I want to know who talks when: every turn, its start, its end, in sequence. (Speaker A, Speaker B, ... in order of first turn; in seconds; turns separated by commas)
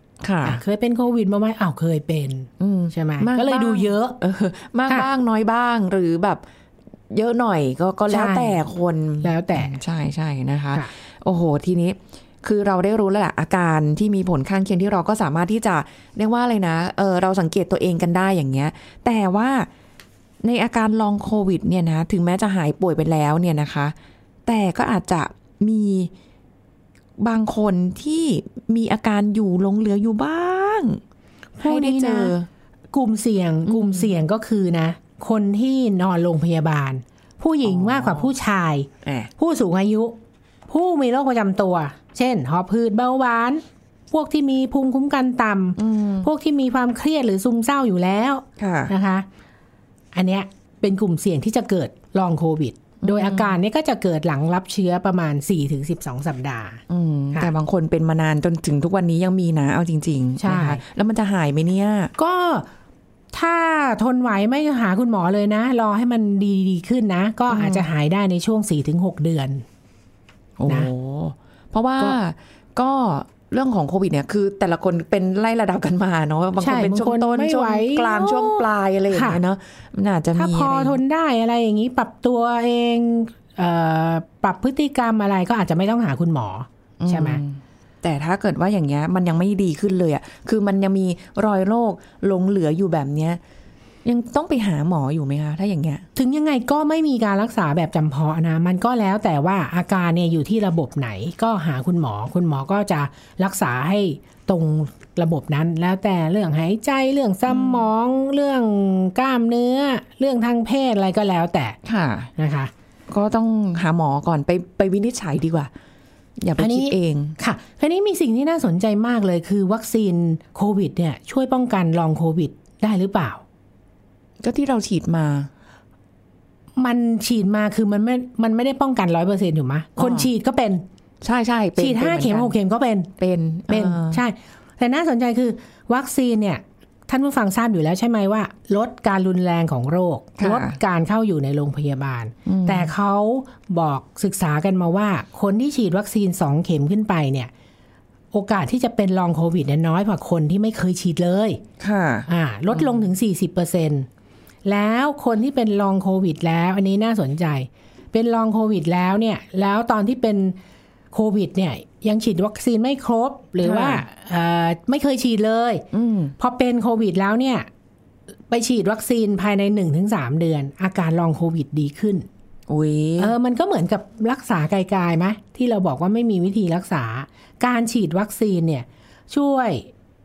Speaker A: 0.2-0.6, Speaker B: 0.4-4.2, Speaker A: 2.6-6.4, Speaker A: 7.1-19.7, Speaker B: 8.1-8.6, Speaker B: 9.2-9.8, Speaker A: 20.4-23.9, Speaker A: 24.5-26.1, Speaker A: 27.2-31.0, Speaker B: 31.6-32.3, Speaker A: 31.6-32.5, Speaker B: 32.9-40.2, Speaker A: 33.7-34.1, Speaker A: 37.6-38.3, Speaker A: 39.0-39.3, Speaker B: 40.7-49.3, Speaker A: 45.8-46.3, Speaker A: 48.6-48.9, Speaker B: 50.1-56.8, Speaker A: 53.0-53.6, Speaker A: 56.9-62.1, Speaker B: 60.4-60.8, Speaker B: 62.2-62.7, Speaker B: 63.3-69.6, Speaker A: 67.5-67.9, Speaker A: 70.6-81.0, Speaker B: 76.6-79.4, Speaker B: 80.3-87.4, Speaker A: 87.0-93.4, Speaker A: 94.0-96.1, Speaker B: 96.2-111.8, Speaker A: 107.5-107.9, Speaker A: 111.8-112.3, Speaker B: 112.4-112.7, Speaker A: 113.1-115.7, Speaker A: 116.4-117.4, Speaker B: 116.6-123.4, Speaker A: 124.4-125.5, Speaker B: 126.8-130.8, Speaker A: 130.0-130.3, Speaker A: 131.2-132.6, Speaker B: 131.8-133.1, Speaker A: 133.2-134.2, Speaker B: 133.7-147.5, Speaker A: 140.4-140.8, Speaker A: 142.4-142.9, Speaker B: 148.3-151.6, Speaker A: 151.8-153.0, Speaker B: 152.3-154.1, Speaker B: 154.7-160.6, Speaker B: 161.1-165.8, Speaker A: 163.6-164.0, Speaker A: 165.9-166.3, Speaker B: 166.4-167.7, Speaker B: 168.5-172.3, Speaker A: 172.7-173.3, Speaker B: 173.2-179.9